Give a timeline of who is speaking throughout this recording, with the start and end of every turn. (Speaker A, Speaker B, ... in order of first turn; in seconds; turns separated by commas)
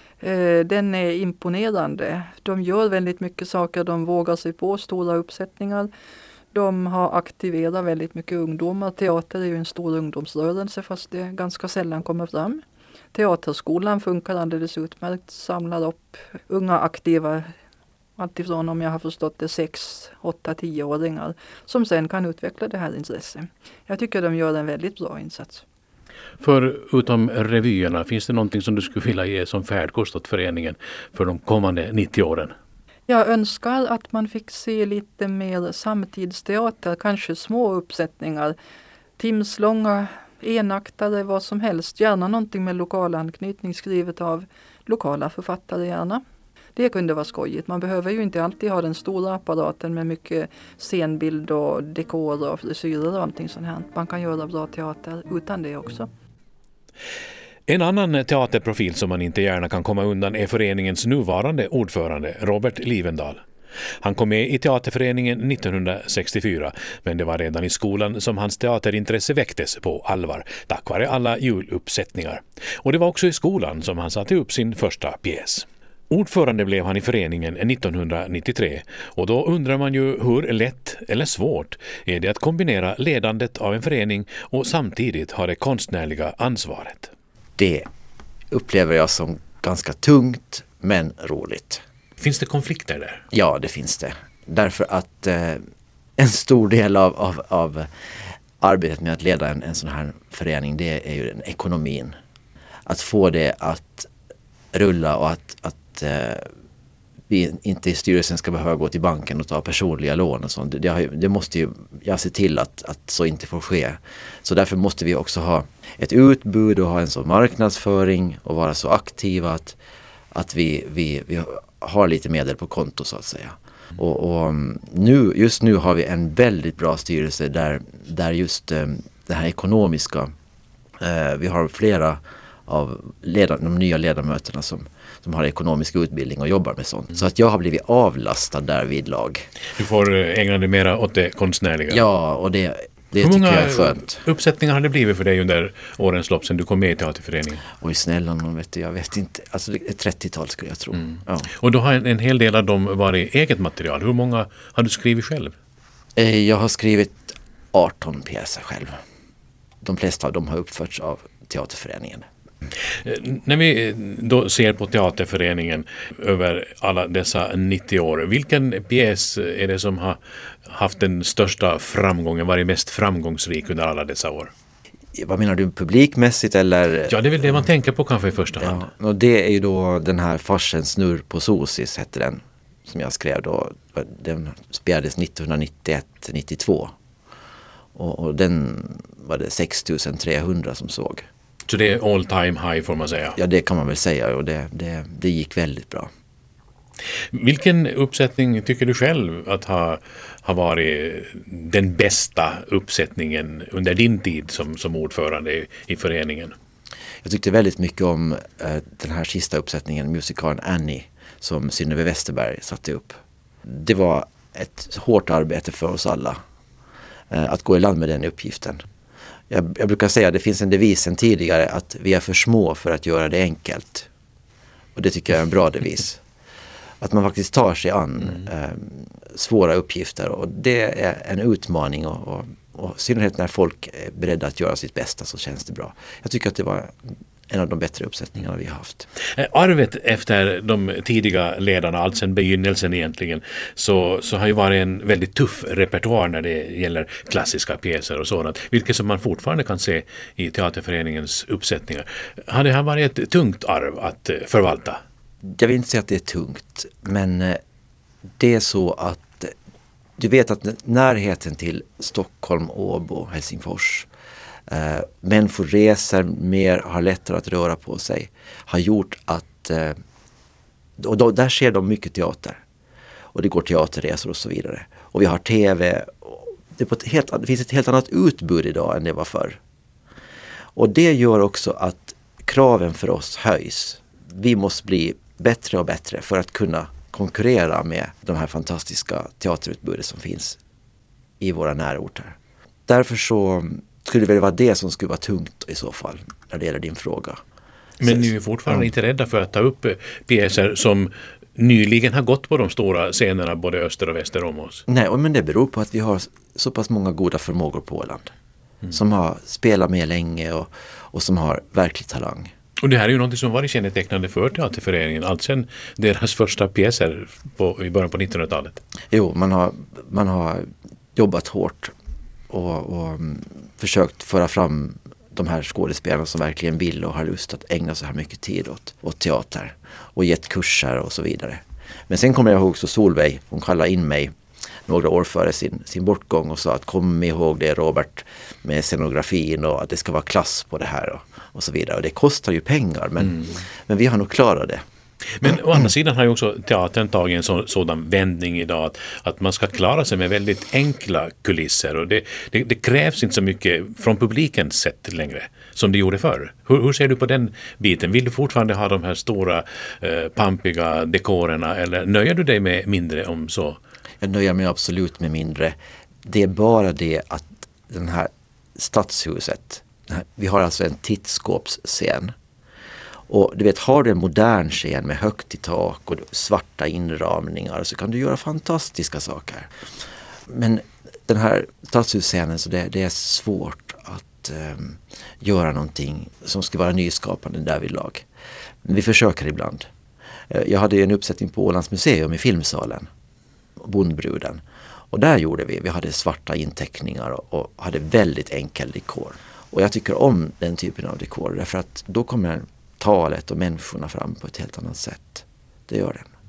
Speaker A: 0.2-5.9, Speaker A: 6.5-12.6, Speaker A: 13.1-17.5, Speaker A: 18.2-25.6, Speaker B: 26.4-32.5, Speaker A: 33.1-38.5, Speaker A: 39.2-46.2, Speaker A: 46.8-56.1, Speaker B: 57.7-63.4, Speaker B: 64.0-87.1, Speaker C: 87.6-87.9, Speaker C: 88.5-91.8, Speaker B: 92.2-93.2, Speaker C: 93.3-95.6, Speaker C: 96.2-97.9, Speaker C: 98.6-102.2, Speaker C: 102.8-104.1, Speaker C: 104.7-106.5, Speaker C: 107.3-119.8, Speaker C: 120.3-130.3, Speaker C: 131.0-139.5, Speaker B: 139.8-142.0, Speaker C: 141.9-144.2, Speaker B: 143.2-147.6, Speaker C: 147.8-151.5, Speaker B: 150.9-155.5, Speaker C: 156.2-159.0, Speaker C: 159.8-162.2, Speaker B: 163.0-174.5, Speaker C: 175.2-177.6, Speaker B: 177.1-178.9, Speaker C: 178.6-186.9, Speaker C: 187.9-191.2, Speaker B: 191.7-193.4, Speaker C: 193.4-196.1, Speaker B: 197.3-206.5, Speaker C: 207.2-216.4, Speaker C: 217.3-218.8, Speaker C: 219.5-224.1, Speaker C: 224.9-226.2, Speaker C: 227.0-237.0, Speaker C: 237.5-239.1, Speaker B: 239.3-255.0, Speaker C: 255.4-257.6, Speaker C: 258.4-259.5, Speaker C: 260.2-264.1, Speaker C: 264.7-270.0, Speaker C: 271.0-272.6, Speaker C: 273.3-279.6, Speaker C: 280.8-290.6, Speaker C: 291.4-292.4, Speaker C: 292.9-297.4, Speaker B: 298.0-304.8, Speaker C: 298.0-298.8, Speaker C: 304.9-308.3, Speaker C: 308.9-312.5, Speaker B: 312.8-318.8, Speaker C: 319.1-321.9, Speaker C: 322.5-334.3, Speaker C: 334.9-344.8, Speaker B: 345.3-363.8, Speaker C: 364.2-372.3, Speaker C: 373.3-379.7, Speaker C: 380.5-388.2, Speaker C: 388.8-389.9, Speaker C: 390.5-393.1, Speaker C: 393.8-406.3